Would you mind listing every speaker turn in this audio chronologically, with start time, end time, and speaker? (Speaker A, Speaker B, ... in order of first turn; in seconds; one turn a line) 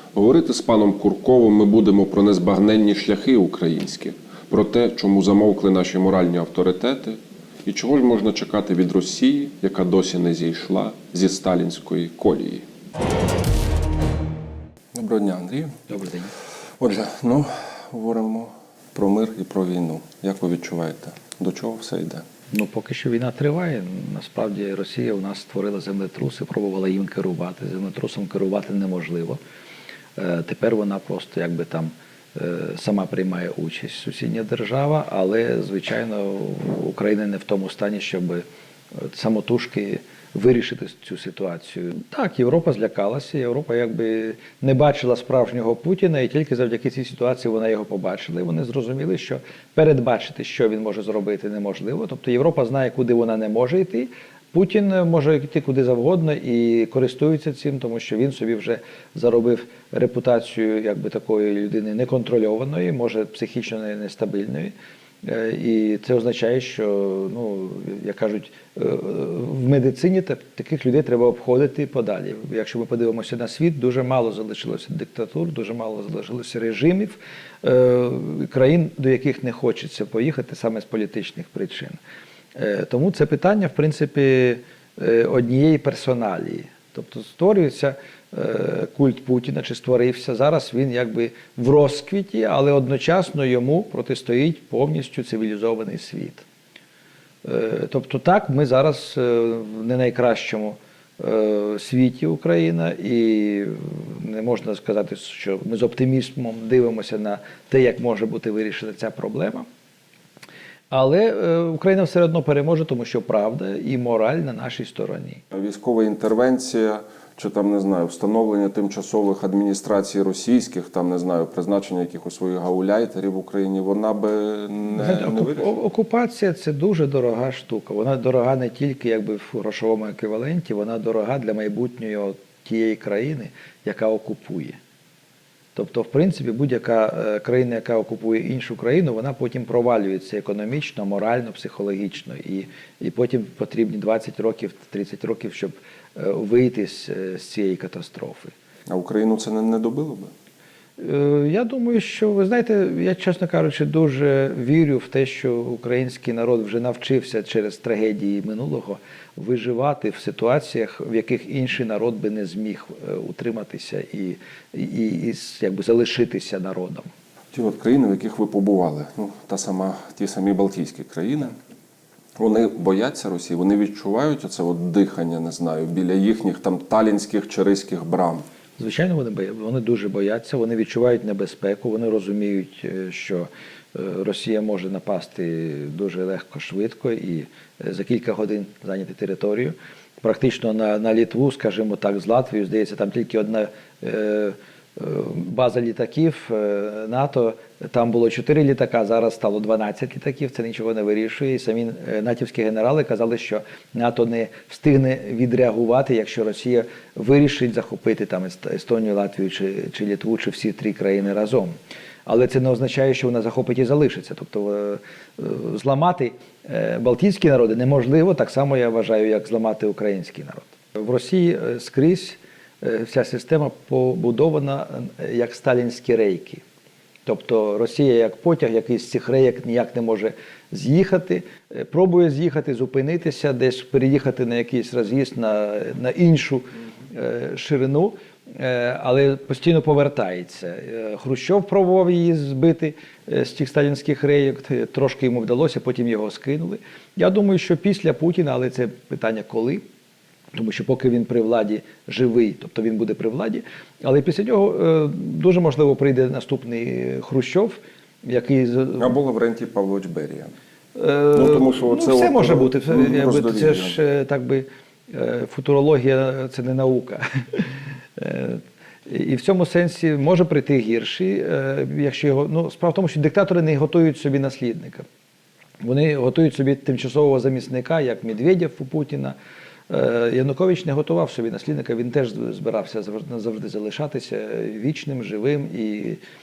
Speaker A: 0.1-12.7
Speaker A: 14.9-15.8
Speaker B: 15.9-16.3
Speaker A: 16.8-22.3
Speaker B: 22.5-29.4
Speaker B: 30.2-38.4
Speaker B: 39.0-82.0
Speaker B: 82.6-96.5
Speaker B: 97.4-109.7
Speaker B: 110.9-115.4
Speaker A: 115.5-125.7
Speaker B: 125.0-134.8
Speaker B: 135.8-148.5
Speaker A: 148.9-150.3
Speaker B: 151.0-167.1
Speaker A: 167.5-171.6
Speaker A: 172.4-178.4
Speaker B: 178.8-211.8
Speaker B: 212.3-226.6
Speaker B: 227.3-249.8
Speaker B: 250.5-259.1
Speaker A: 259.0-260.5
Speaker B: 260.9-275.1
Speaker A: 261.3-264.0
Speaker B: 275.8-279.4
Speaker B: 279.9-286.2